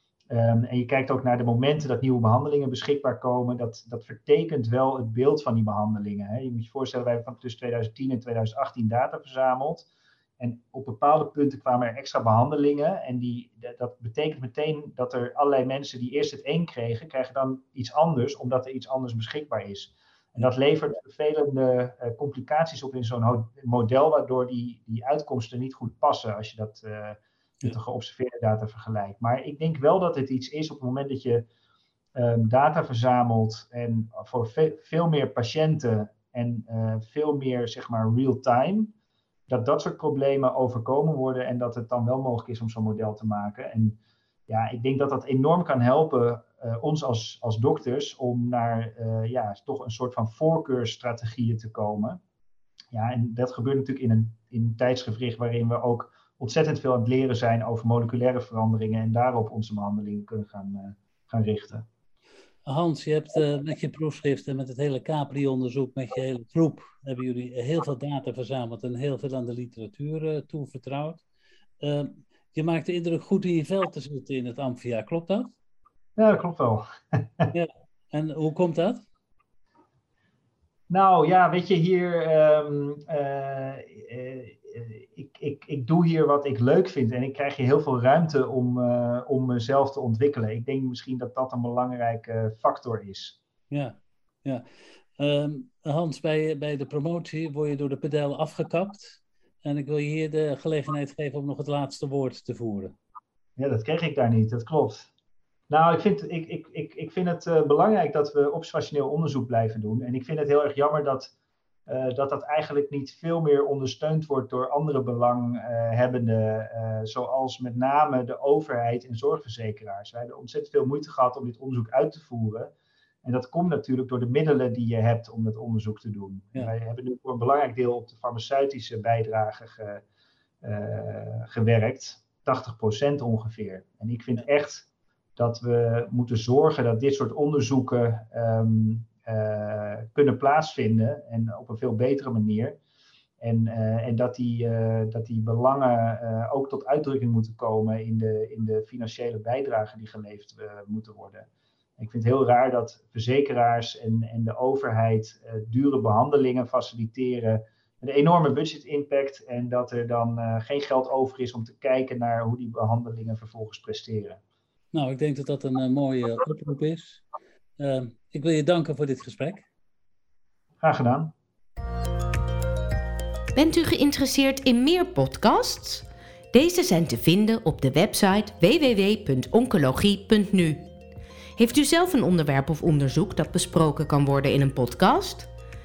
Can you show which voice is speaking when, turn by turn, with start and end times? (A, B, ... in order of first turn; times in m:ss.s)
0:00.3-0:09.8 A
0:10.4-0:31.4 A
0:32.2-0:38.9 A
0:39.5-0:52.2 A
0:52.9-1:01.8 A
1:02.6-1:11.2 B
1:11.8-1:15.5 B
1:16.2-1:17.5 A
1:17.5-1:19.0 B
1:20.9-1:33.4 A
1:33.7-1:34.6 B
1:35.2-1:42.9 B
1:43.6-1:45.1 A
1:45.7-1:51.3 A
1:51.9-2:02.7 A
2:03.2-2:10.0 A
2:10.6-2:22.8 A
2:23.4-2:31.5 A
2:32.0-2:44.4 A
2:44.9-2:47.2 B
2:47.8-2:49.7 B
2:50.8-2:51.3 A
2:53.5-3:00.8 C
3:01.6-3:05.5 C